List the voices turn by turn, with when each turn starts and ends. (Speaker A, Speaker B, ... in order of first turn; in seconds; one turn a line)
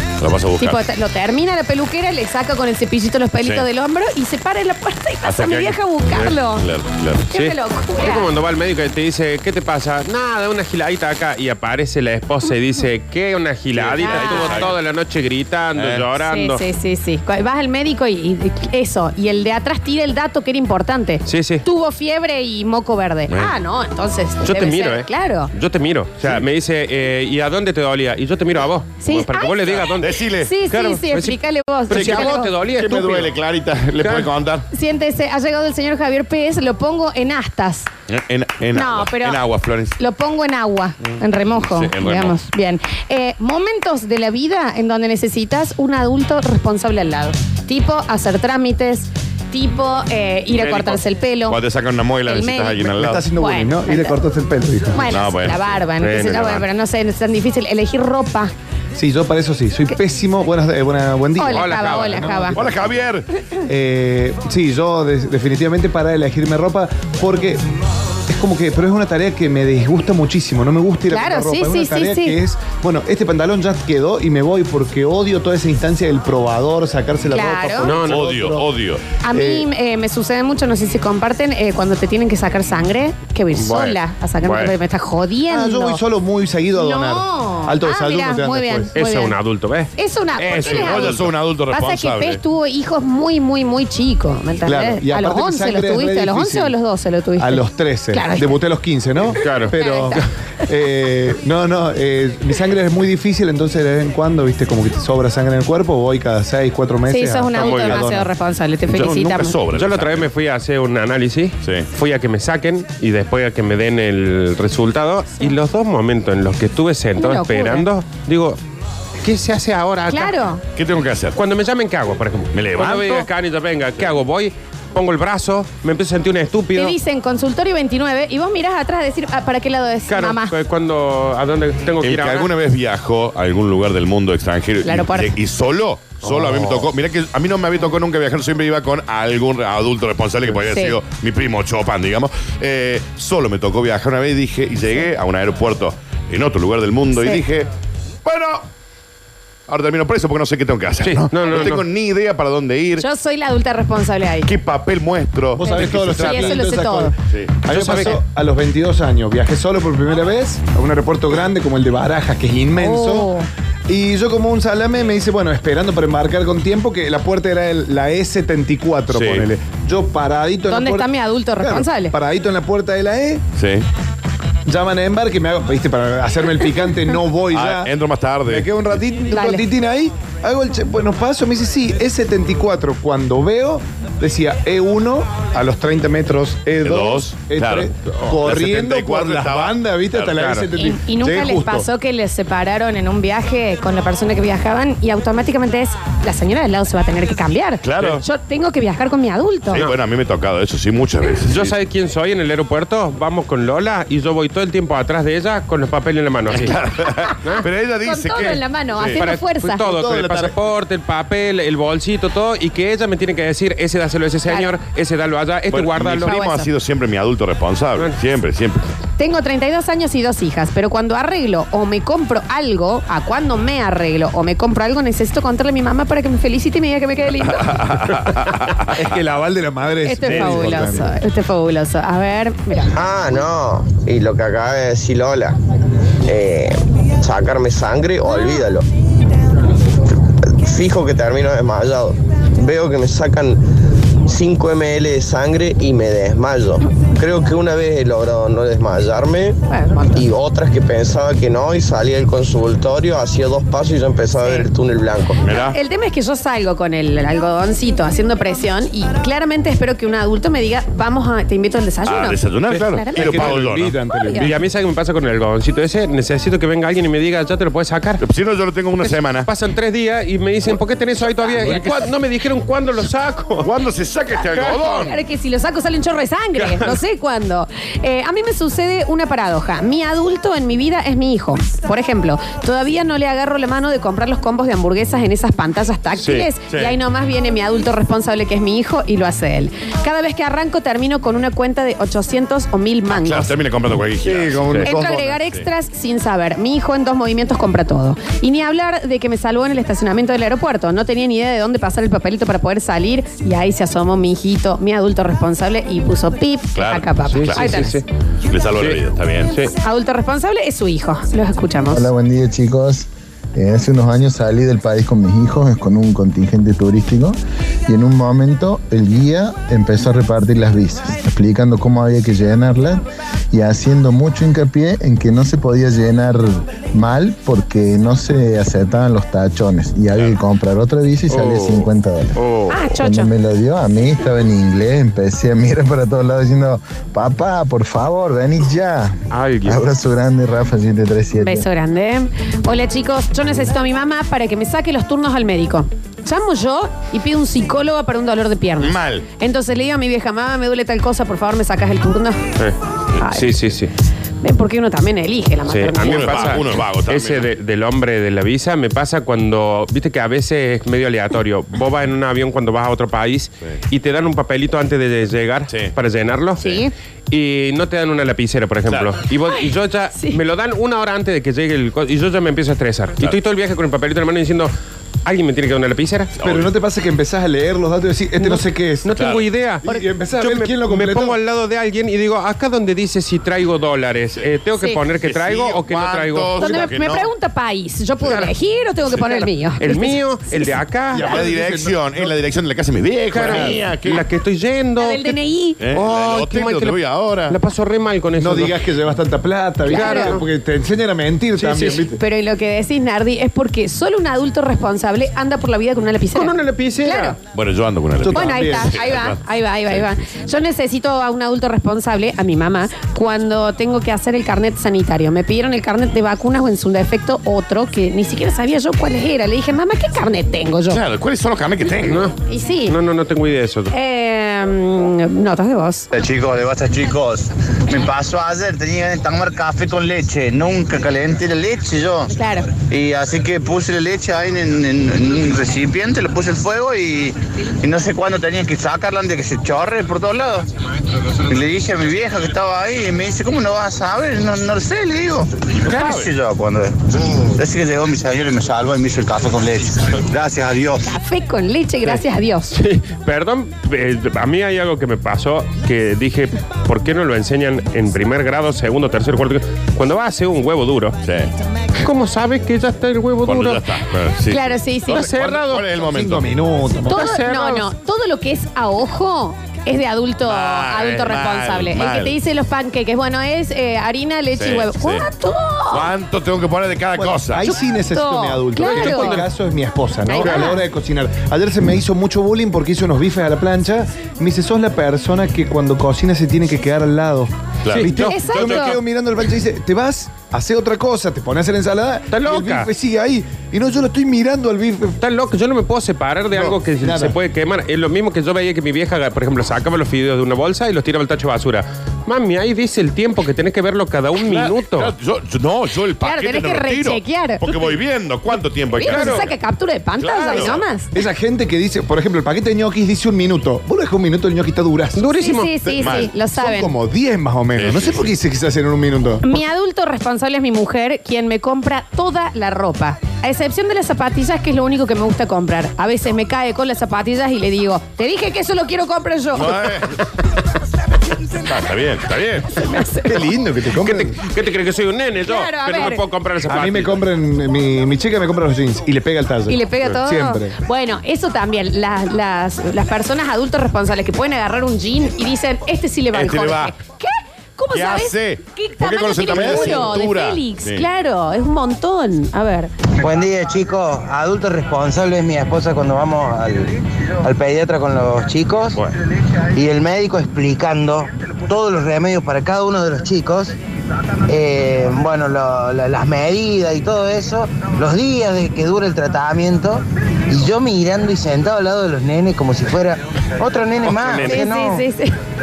Speaker A: 0.2-0.8
Speaker B: 0.6-6.7
Speaker A: 5.2-7.3
Speaker B: 7.3-8.3
Speaker C: 7.3-16.6
Speaker A: 13.7-14.8
Speaker B: 14.0-14.7
Speaker A: 15.8-16.1
Speaker B: 16.2-25.5
Speaker C: 21.3-21.6
Speaker A: 23.3-23.6
Speaker C: 24.4-33.3
Speaker A: 26.2-26.5
Speaker B: 29.0-32.5
Speaker A: 29.7-30.5
Speaker A: 31.9-34.7
Speaker C: 34.0-34.3
Speaker B: 34.7-37.9
Speaker A: 38.1-40.0
Speaker B: 38.7-39.4
Speaker B: 40.0-51.6
Speaker A: 41.5-42.4
Speaker C: 50.5-51.0
Speaker A: 51.5-53.2
Speaker B: 52.2-52.8
Speaker D: 52.8-55.1
Speaker B: 53.4-54.2
Speaker B: 54.9-58.5
Speaker A: 55.0-56.7
Speaker C: 56.0-56.5
Speaker D: 59.0-62.9
Speaker B: 61.4-62.6
Speaker C: 61.5-62.3
Speaker A: 62.5-63.3
Speaker D: 63.7-67.6
Speaker D: 68.3-78.7
Speaker B: 71.1-72.4
Speaker B: 77.3-77.9
Speaker C: 77.8-78.3
Speaker A: 78.0-79.0
Speaker B: 79.2-86.0
Speaker D: 79.3-79.7
Speaker C: 83.5-84.7
Speaker D: 85.5-88.9
Speaker B: 86.8-89.4
Speaker C: 89.0-91.3
Speaker B: 90.0-98.5
Speaker A: 90.6-92.4
Speaker D: 94.7-96.8
Speaker D: 97.4-108.3
Speaker C: 99.4-100.2
Speaker B: 99.7-100.2
Speaker B: 107.1-109.6
Speaker C: 107.5-108.1
Speaker A: 108.9-110.3
Speaker C: 109.7-118.6
Speaker A: 111.6-111.9
Speaker B: 117.2-117.9
Speaker C: 119.2-120.3
Speaker B: 120.1-120.6
Speaker A: 120.8-121.4
Speaker C: 121.4-127.0
Speaker A: 122.5-123.3
Speaker B: 126.8-130.5
Speaker C: 130.1-132.5
Speaker A: 132.0-147.7
Speaker B: 134.8-135.3
Speaker C: 136.2-136.9
Speaker B: 140.7-141.0
Speaker B: 147.1-147.4
Speaker A: 148.2-148.7
Speaker A: 149.7-153.1
Speaker C: 151.0-151.9
Speaker B: 153.0-154.5
Speaker A: 154.4-156.7
Speaker D: 155.6-163.3
Speaker B: 155.6-157.1
Speaker C: 157.7-158.2
Speaker B: 162.8-163.5
Speaker D: 163.9-173.5
Speaker A: 169.1-169.5
Speaker B: 170.7-172.1
Speaker A: 173.6-173.8
Speaker D: 174.7-177.9
Speaker A: 177.5-178.8
Speaker D: 178.4-191.9
Speaker B: 179.3-179.7
Speaker A: 186.8-190.5
Speaker C: 190.3-190.6
Speaker B: 190.8-199.8
Speaker A: 197.8-198.2
Speaker A: 199.7-201.8
Speaker C: 201.5-206.9
Speaker A: 206.5-209.2
Speaker B: 208.0-209.9
Speaker C: 209.1-216.4
Speaker D: 209.9-210.5
Speaker A: 215.7-218.8
Speaker B: 216.3-216.7
Speaker B: 219.2-228.1
Speaker A: 227.7-228.9
Speaker D: 228.9-231.1
Speaker B: 230.1-232.9
Speaker C: 230.3-230.6
Speaker E: 232.9-235.6
Speaker E: 236.3-238.9
Speaker E: 240.5-243.6
Speaker E: 244.3-249.6
Speaker B: 249.7-250.3
Speaker E: 250.2-255.4
Speaker B: 254.4-254.7
Speaker A: 255.4-255.8
Speaker B: 255.5-263.6
Speaker A: 262.1-264.0
Speaker D: 262.7-264.6
Speaker B: 264.1-264.5
Speaker C: 264.4-268.2
Speaker A: 268.2-269.5
Speaker C: 269.0-273.7
Speaker A: 271.6-272.1
Speaker A: 273.6-275.2
Speaker B: 274.5-293.6
Speaker C: 286.2-286.5
Speaker A: 286.7-287.0
Speaker A: 293.1-295.7
Speaker D: 294.3-295.0
Speaker B: 294.8-308.0
Speaker A: 306.8-307.8
Speaker C: 307.3-308.0
Speaker A: 308.5-309.6
Speaker C: 308.8-309.7
Speaker B: 309.8-312.1
Speaker F: 311.9-332.4
Speaker C: 331.3-332.8
Speaker B: 332.7-333.3
Speaker F: 332.9-341.7
Speaker C: 339.3-339.8
Speaker B: 341.4-352.4
Speaker A: 348.8-349.2
Speaker C: 352.6-353.9
Speaker B: 353.2-353.5
Speaker B: 354.4-356.7
Speaker C: 355.7-366.6
Speaker A: 356.0-357.5
Speaker A: 366.6-366.9
Speaker B: 366.6-366.9
Speaker C: 367.3-374.7
Speaker A: 368.9-369.2
Speaker C: 375.2-376.3
Speaker A: 376.4-376.7
Speaker D: 376.4-379.1
Speaker C: 379.1-379.9
Speaker A: 379.1-379.5
Speaker D: 379.8-381.4
Speaker C: 380.4-386.9
Speaker A: 385.2-387.3
Speaker B: 386.6-390.7
Speaker C: 388.3-388.5
Speaker C: 389.8-391.4
Speaker D: 391.1-392.4
Speaker A: 391.3-394.3
Speaker C: 393.3-395.4
Speaker D: 393.5-393.8
Speaker B: 395.0-395.8
Speaker A: 395.8-397.6
Speaker C: 395.9-398.8
Speaker D: 398.4-402.2
Speaker B: 399.9-400.4
Speaker C: 399.9-400.4
Speaker C: 401.6-402.0
Speaker B: 402.1-407.4
Speaker C: 406.4-407.4
Speaker A: 407.5-410.1
Speaker D: 408.2-409.0
Speaker B: 408.3-421.0
Speaker A: 420.9-422.3
Speaker C: 422.0-422.4
Speaker B: 422.5-422.9
Speaker C: 422.9-423.9
Speaker B: 423.9-426.1
Speaker G: 426.1-440.6
Speaker B: 432.3-432.7
Speaker G: 441.4-451.0
Speaker A: 445.8-446.3
Speaker B: 451.0-452.8
Speaker C: 452.7-461.2
Speaker A: 461.2-461.5
Speaker C: 462.0-464.0
Speaker A: 463.4-466.6
Speaker B: 464.5-465.3
Speaker C: 465.1-465.8
Speaker D: 466.0-467.2
Speaker B: 467.1-476.1
Speaker C: 467.1-467.9
Speaker A: 470.4-472.4
Speaker A: 474.6-475.3
Speaker A: 475.9-477.7
Speaker D: 477.1-495.2
Speaker B: 478.1-479.4
Speaker C: 478.8-479.5
Speaker B: 480.3-480.8
Speaker A: 487.9-488.5
Speaker C: 487.9-488.9
Speaker B: 488.2-489.0
Speaker C: 492.3-492.9
Speaker C: 495.2-505.1
Speaker D: 496.5-497.4
Speaker A: 504.4-509.6
Speaker B: 506.2-507.9
Speaker B: 509.0-511.1
Speaker C: 509.0-509.5
Speaker A: 510.2-510.9
Speaker D: 511.1-515.2
Speaker C: 515.2-515.7
Speaker B: 515.4-516.9
Speaker A: 516.0-516.4
Speaker D: 516.1-519.5
Speaker A: 517.8-518.3
Speaker B: 519.4-529.9
Speaker A: 529.5-530.2
Speaker A: 531.6-532.8
Speaker B: 532.8-533.3
Speaker D: 533.2-534.4
Speaker C: 534.0-537.2
Speaker B: 535.5-536.2
Speaker D: 536.6-540.8
Speaker B: 539.7-552.9
Speaker A: 546.3-546.9
Speaker A: 547.9-551.1
Speaker D: 549.5-550.0
Speaker H: 553.2-559.0
Speaker H: 559.7-563.8
Speaker H: 564.5-575.0
Speaker C: 574.1-574.6
Speaker B: 574.4-575.3